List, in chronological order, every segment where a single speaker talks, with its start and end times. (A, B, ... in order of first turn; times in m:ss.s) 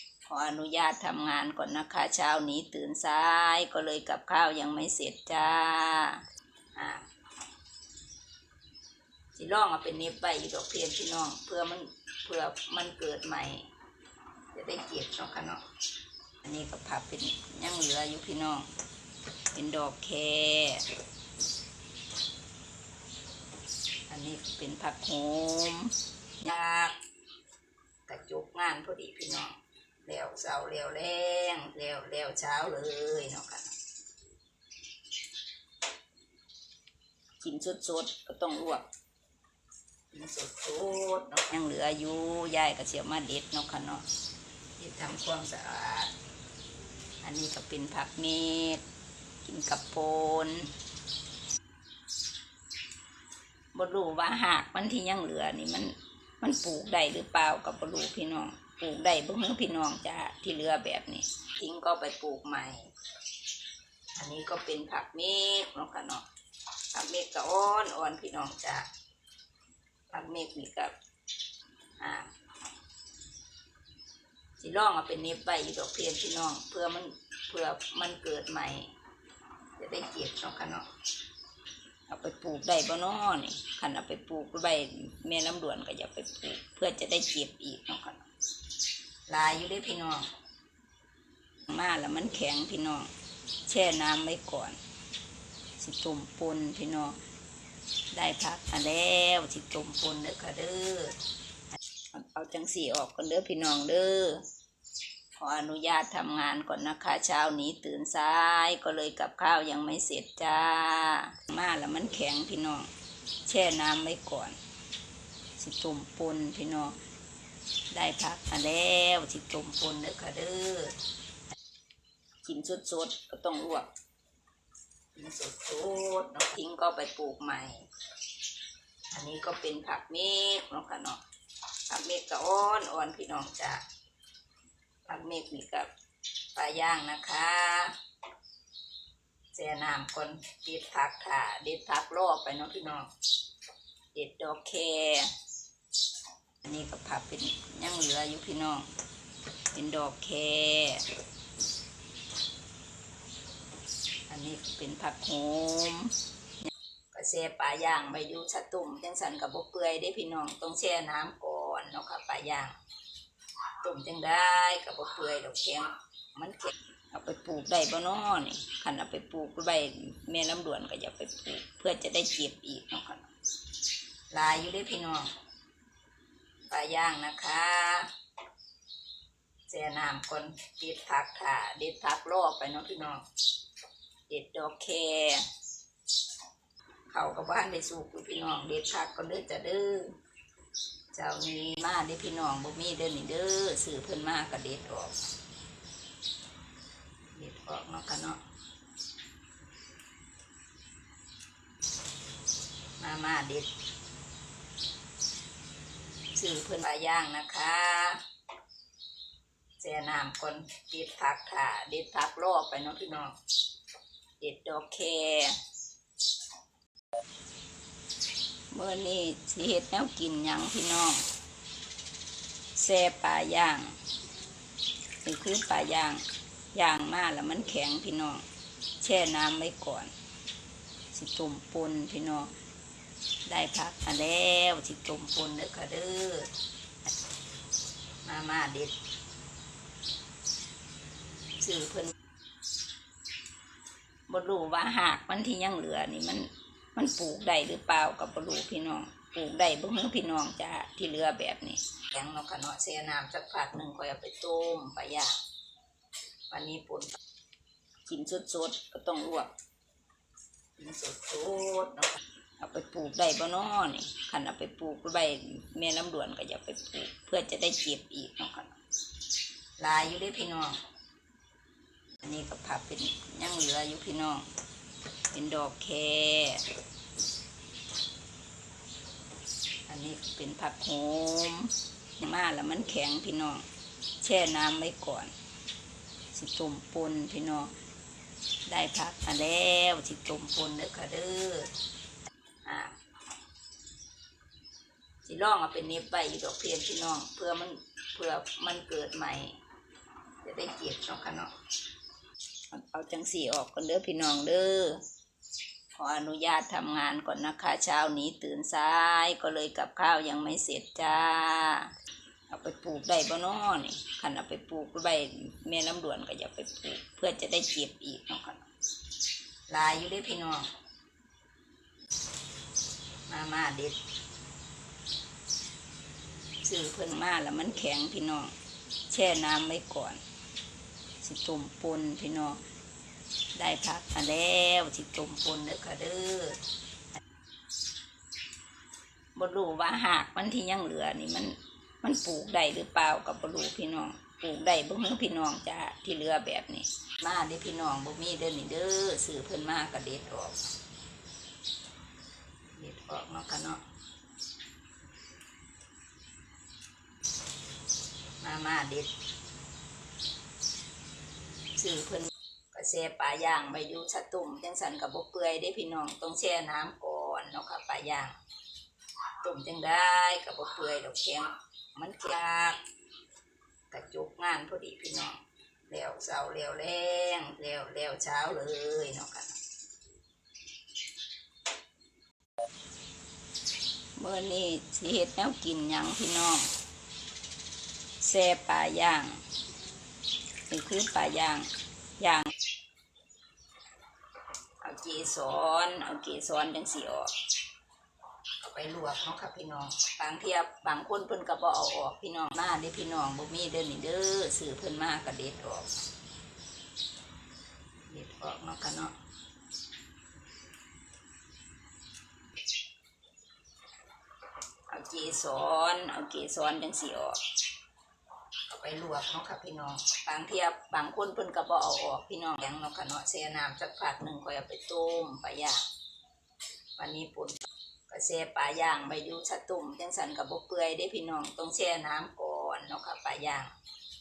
0:00.2-0:07.0 A
0:09.3-0:13.7 A
0:14.5-0:15.6 A
0:16.4-0:18.7 A
0:19.5-0:20.9 A
0:24.1-0:26.9 A
0:28.1-0:33.7 A
0:37.4-0:38.8 A
0:40.1-0:44.0 A
0:44.8-0:46.1 A
0:47.2-0:48.8 A
0:49.4-0:50.7 A
0:53.7-1:02.9 A
1:04.2-1:06.2 A
1:06.9-1:08.9 A
1:10.1-1:10.9 A
1:12.0-1:12.3 A
1:14.6-1:18.9 A
1:19.8-1:20.9 A
1:22.1-1:28.2 A
1:29.3-1:30.3 A
1:31.7-1:33.1 A
1:33.7-1:34.8 A
1:35.8-1:37.2 A
1:38.1-1:41.2 A
1:42.1-1:44.4 A
1:45.4-1:52.9 A
1:53.4-1:54.6 A
1:55.6-1:57.0 A
1:57.9-2:01.0 A
2:02.4-2:03.9 A
2:05.2-2:07.8 A
2:09.1-2:11.2 A
2:11.9-2:13.8 A
2:15.1-2:15.9 A
2:16.5-2:17.9 A
2:19.5-2:23.1 A
2:24.1-2:25.3 A
2:26.6-2:28.9 A
2:29.7-2:31.1 A
2:34.3-2:42.7 A
2:43.8-2:53.3 A
2:54.3-2:55.3 A
2:56.7-2:58.1 A
2:59.7-3:03.2 A
3:04.3-3:05.4 A
3:07.1-3:10.2 A
3:11.1-3:15.1 A
3:17.4-3:18.4 A
3:23.0-3:23.7 A
3:26.4-3:28.2 A
3:29.8-3:33.4 A
3:34.4-3:35.6 A
3:38.7-3:41.2 A
3:42.8-3:44.0 A
3:45.2-3:48.4 A
3:49.0-3:50.1 A
3:51.1-3:52.5 A
3:53.4-3:56.5 A
3:58.2-3:58.9 A
4:01.6-4:02.1 A
4:04.3-4:15.4 A
4:16.5-4:17.2 A
4:18.0-4:19.5 A
4:20.8-4:28.7 A
4:29.8-4:30.8 A
4:32.2-4:34.5 A
4:35.3-4:36.7 A
4:39.9-4:43.6 A
4:44.2-4:45.3 A
4:46.3-4:47.7 A
4:48.7-4:51.7 A
4:52.6-4:52.9 A
4:55.2-4:59.6 A
5:00.4-5:01.5 A
5:02.7-5:05.0 A
5:05.9-5:11.9 A
5:12.5-5:18.6 A
5:19.7-5:20.7 A
5:23.3-5:24.0 A
5:26.6-5:28.5 A
5:29.1-5:30.2 A
5:31.2-5:32.6 A
5:33.5-5:36.6 A
5:39.3-5:50.6 A
5:52.8-5:53.8 A
5:58.4-5:59.1 A
6:01.8-6:08.3 A
6:09.4-6:12.8 A
6:13.9-6:19.5 A
6:24.2-6:26.7 A
6:28.2-6:29.4 A
6:30.7-6:32.5 A
6:34.8-6:37.3 A
6:38.6-6:45.9 A
6:48.1-6:49.1 A
6:54.9-6:57.4 A
6:58.7-7:05.8 A
7:07.0-7:13.7 A